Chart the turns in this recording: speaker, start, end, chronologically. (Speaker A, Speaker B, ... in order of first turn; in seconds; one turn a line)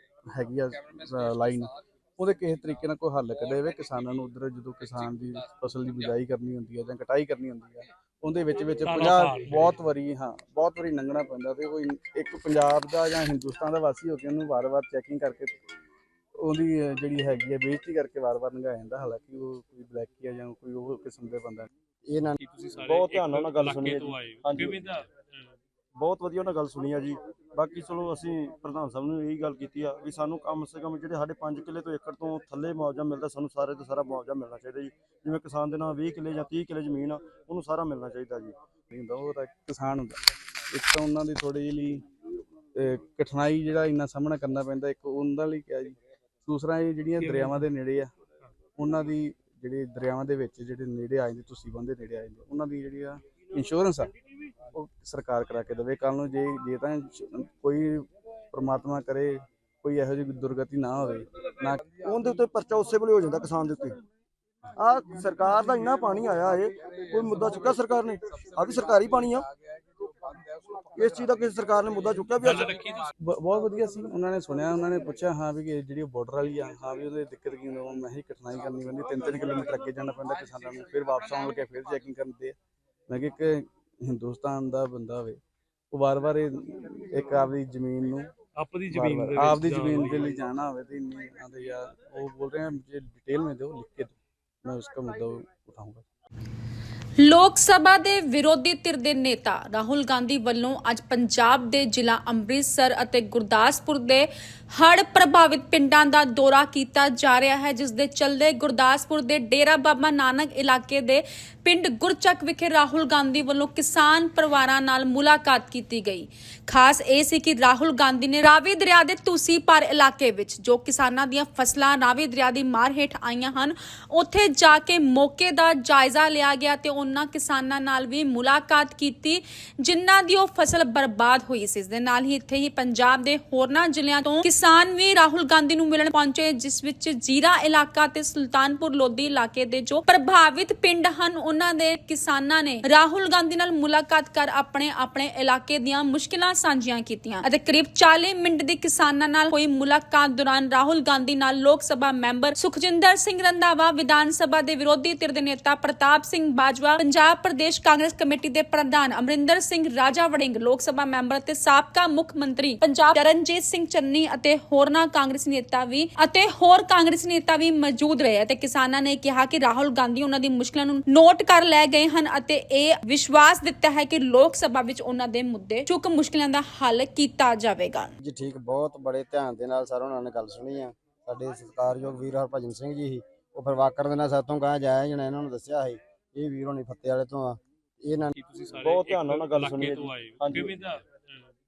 Speaker A: 0.3-15.6
Speaker B: 8.8-9.8
Speaker A: 16.4-21.7
Speaker C: 22.0-22.4
Speaker B: 22.4-25.6
Speaker D: 22.8-24.8
Speaker D: 26.0-38.5
Speaker A: 38.9-40.2
Speaker A: 40.7-42.0
Speaker A: 42.7-48.1
Speaker B: 47.2-47.6
Speaker A: 48.8-54.1
Speaker A: 54.7-61.8
Speaker D: 62.0-64.0
Speaker D: 64.8-69.5
Speaker D: 70.9-72.8
Speaker B: 72.4-73.1
Speaker A: 73.2-82.6
Speaker A: 83.1-85.4
Speaker A: 85.9-88.3
Speaker B: 88.5-90.4
Speaker A: 88.9-96.0
Speaker E: 97.2-178.1
Speaker C: 178.2-188.3
Speaker B: 188.3-191.5
Speaker D: 188.8-190.8